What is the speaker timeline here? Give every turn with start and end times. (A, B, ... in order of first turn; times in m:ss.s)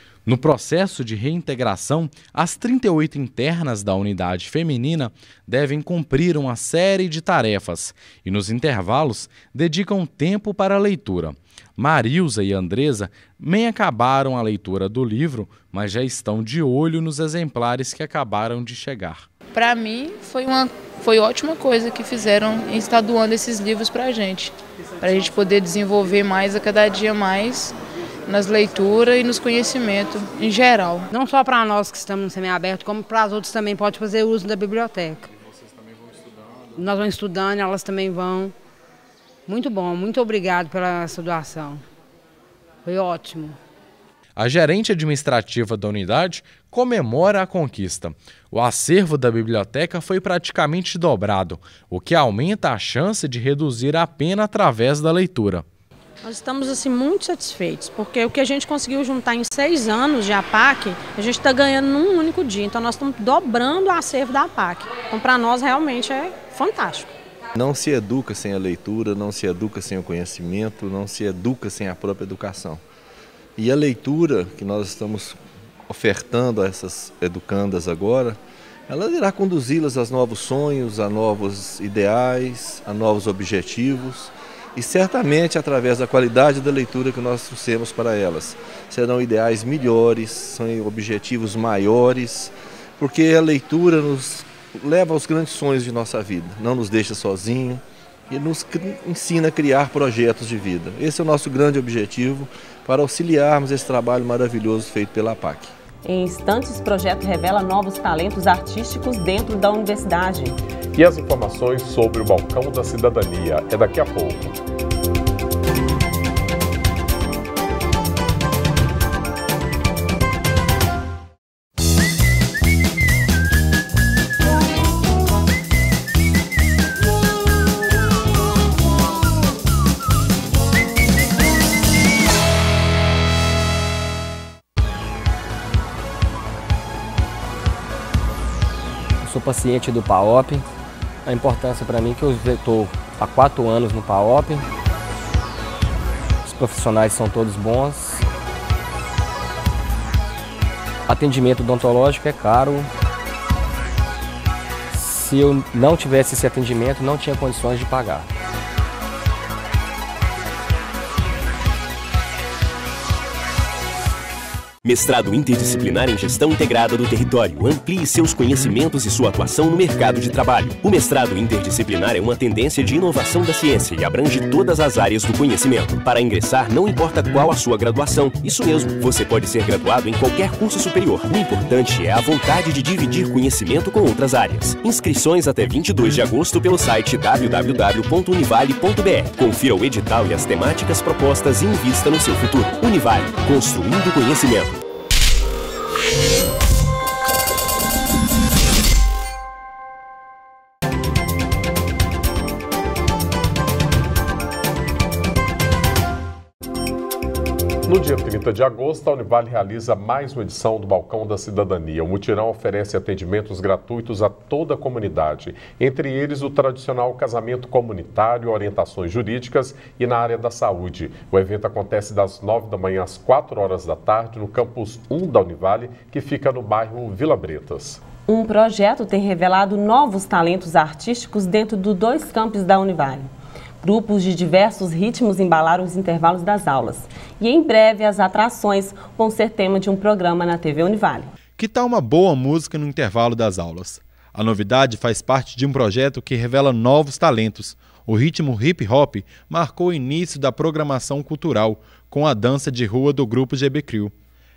0:00.3-0:19.2 A
0:19.5-0:27.8 B
0:28.3-0:31.0 B
0:31.1-0:35.3 C
0:36.8-0:38.5 C
0:39.5-0:41.8 C
0:42.8-0:43.6 C
0:44.4-0:55.6 A
0:56.2-1:07.1 D
1:07.6-1:12.8 E
1:13.6-1:15.4 E
1:15.9-1:45.7 E
1:46.0-1:50.6 F
1:51.0-1:54.6 G
2:26.7-2:27.3 H
2:31.3-2:32.7 H
2:35.4-2:38.0 H
2:44.8-3:14.8 I
3:27.9-3:48.0 G
3:48.3-3:53.3 F
3:53.8-4:01.3 F
4:01.6-4:14.1 J